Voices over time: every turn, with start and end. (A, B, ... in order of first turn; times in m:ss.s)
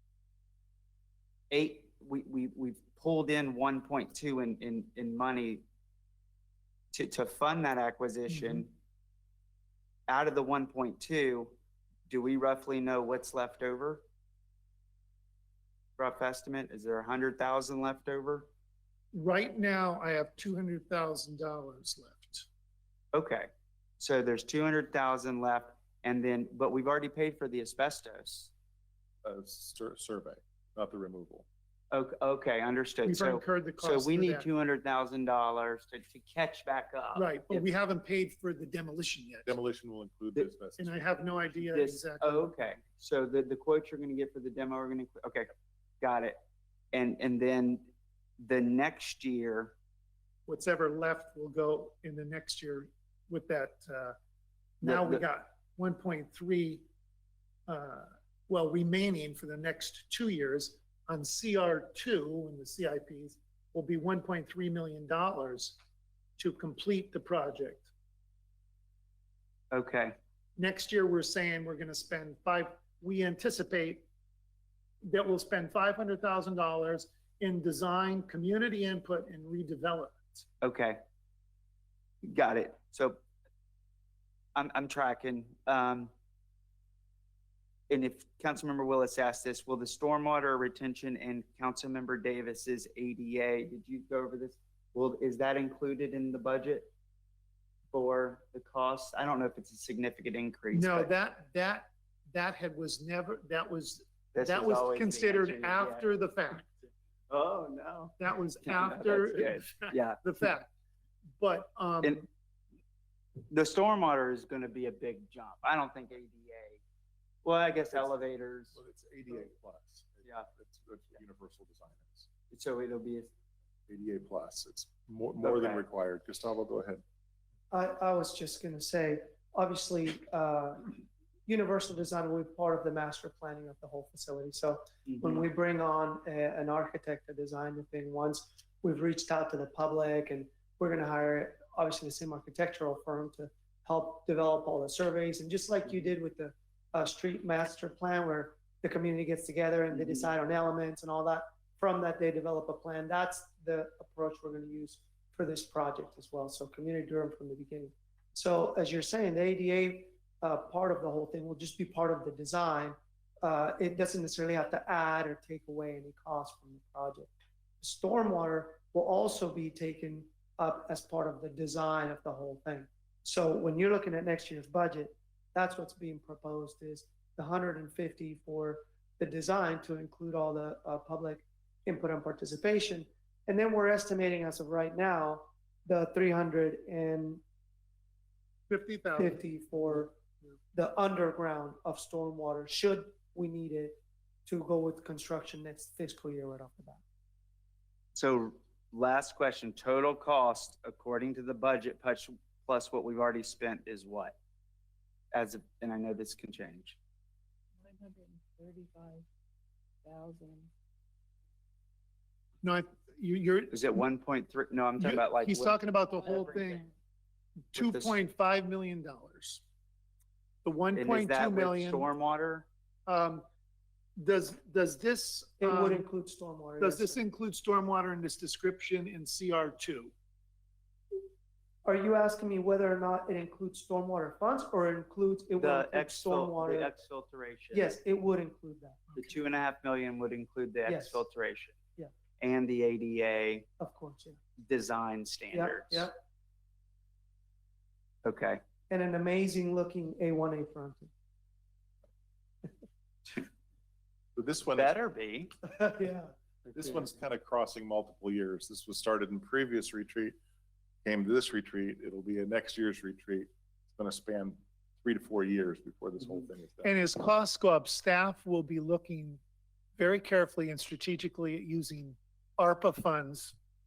0:01.5-0:05.6 A
0:06.9-0:08.8 A
0:10.1-0:11.6 A
0:12.1-0:14.0 A
0:16.0-0:18.5 A
0:19.1-0:22.5 B
0:23.1-0:28.5 A
0:29.2-0:31.4 C
0:31.9-0:37.7 A
0:33.0-0:34.5 B
0:37.1-0:39.6 B
0:39.5-0:40.9 C
0:40.8-0:42.5 B
0:41.7-0:46.4 A
0:46.9-0:49.7 A
0:50.5-0:54.2 B
0:54.8-0:56.8 B
0:54.8-0:55.2 A
0:57.7-1:05.8 B
1:06.4-1:07.9 B
1:09.7-1:10.2 A
1:10.6-1:14.0 B
1:15.0-1:20.4 B
1:20.6-1:21.0 A
1:22.2-1:23.2 A
1:24.5-1:26.1 A
1:27.9-1:36.9 A
1:37.9-1:41.1 A
1:40.7-1:46.8 B
1:44.3-1:46.0 A
1:47.3-1:50.2 A
1:48.2-1:50.7 B
1:51.4-1:52.3 B
1:53.5-1:56.8 A
1:57.4-1:58.8 A
1:58.7-2:02.3 C
2:00.2-2:00.5 A
2:02.5-2:03.3 A
2:03.9-2:07.0 C
2:05.4-2:05.8 A
2:07.7-3:07.4 D
2:15.1-2:15.4 A
2:30.0-2:30.2 A
3:08.7-3:09.4 B
3:09.2-3:10.1 D
3:10.7-3:17.0 D
3:18.1-3:24.4 A
3:25.3-3:27.0 A
3:27.8-3:29.2 E
3:30.0-3:30.7 E
3:32.6-3:34.0 B
3:33.7-3:36.5 A
3:35.0-3:36.8 B
3:36.3-3:36.9 E
3:37.7-3:39.6 B
3:37.7-3:38.2 A
3:40.6-3:42.1 B
3:40.9-3:42.7 A
3:43.1-3:43.4 B
3:44.2-3:46.0 B
3:45.6-3:47.2 D
3:46.8-3:50.1 B
3:51.8-3:56.9 D
3:55.6-3:58.0 A
3:57.7-3:59.2 D
3:59.2-4:01.7 A
4:00.8-4:01.2 D
4:02.4-4:03.7 A
4:03.8-4:04.4 D
4:04.6-4:06.1 A
4:05.5-4:06.1 D
4:08.2-4:08.6 A
4:08.9-4:11.1 D
4:14.4-4:14.9 C
4:14.7-4:15.5 A
4:15.6-4:16.3 D
4:16.7-4:20.4 C
4:21.0-4:26.9 C
4:26.8-4:29.4 B
4:30.0-4:33.6 B